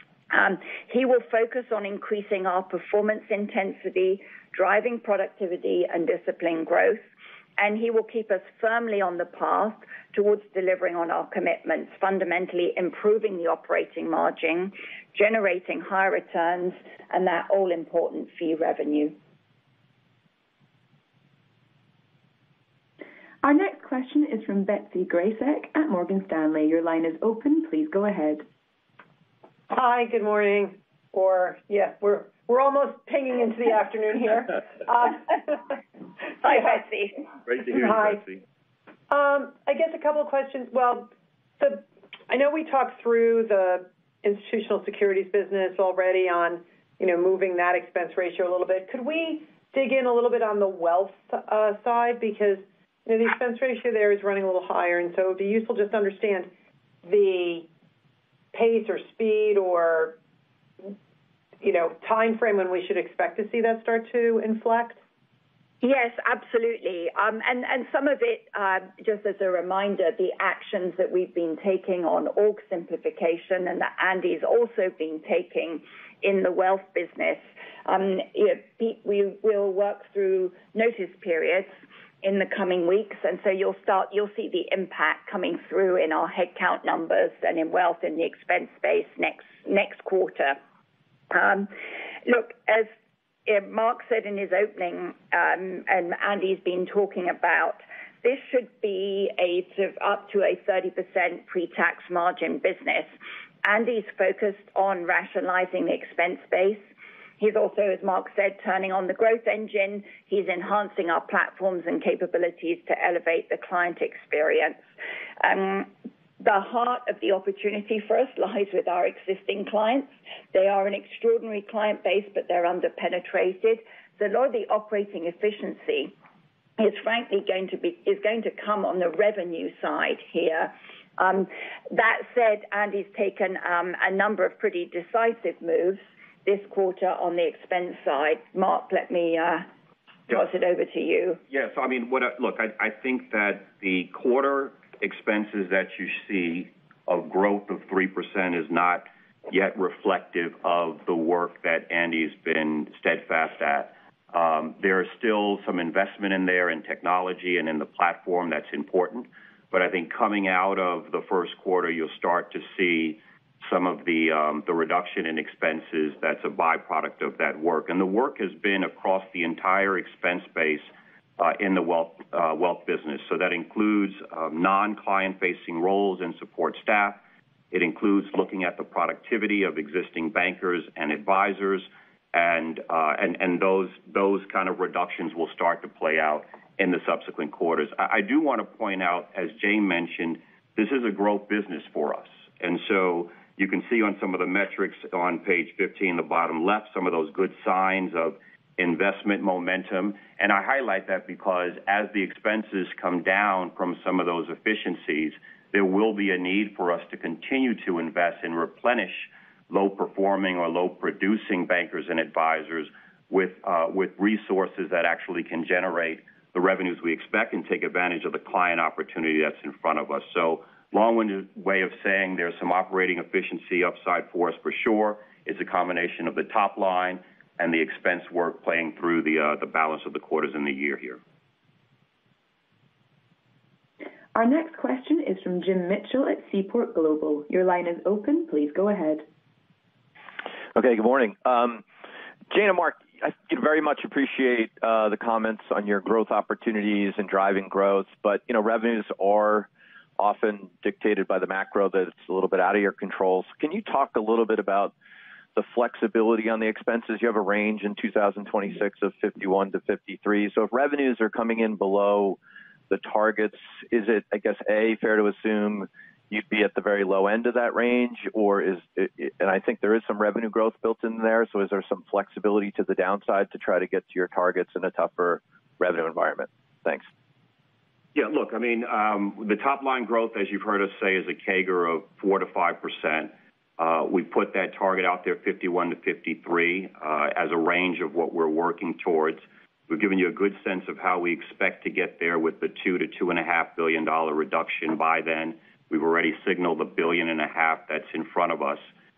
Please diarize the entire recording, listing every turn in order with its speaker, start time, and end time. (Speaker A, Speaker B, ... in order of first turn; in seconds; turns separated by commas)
Speaker A: 0.3-7.0, Speaker A: 7.6-19.1, Speaker B: 23.4-28.4, Speaker C: 29.7-35.7, Speaker A: 36.4-37.2, Speaker C: 36.5-36.8, Speaker D: 37.5-38.4, Speaker C: 37.6-38.2, Speaker C: 39.1-56.5, Speaker C: 57.0-57.7, Speaker C: 58.5-60.2, Speaker C: 61.6-65.0, Speaker A: 65.8-90.6, Speaker A: 91.3-91.7, Speaker A: 92.2-92.9, Speaker A: 93.5-103.1, Speaker A: 103.6-106.8, Speaker A: 107.4-114.8, Speaker A: 115.4-126.1, Speaker A: 126.8-139.7, Speaker A: 140.3-141.4, Speaker D: 141.5-177.2, Speaker D: 177.7-231.2, Speaker B: 234.3-239.2, Speaker E: 240.7-241.8, Speaker E: 242.5-254.9, Speaker E: 255.5-262.4, Speaker E: 262.9-277.1, Speaker D: 278.1-298.9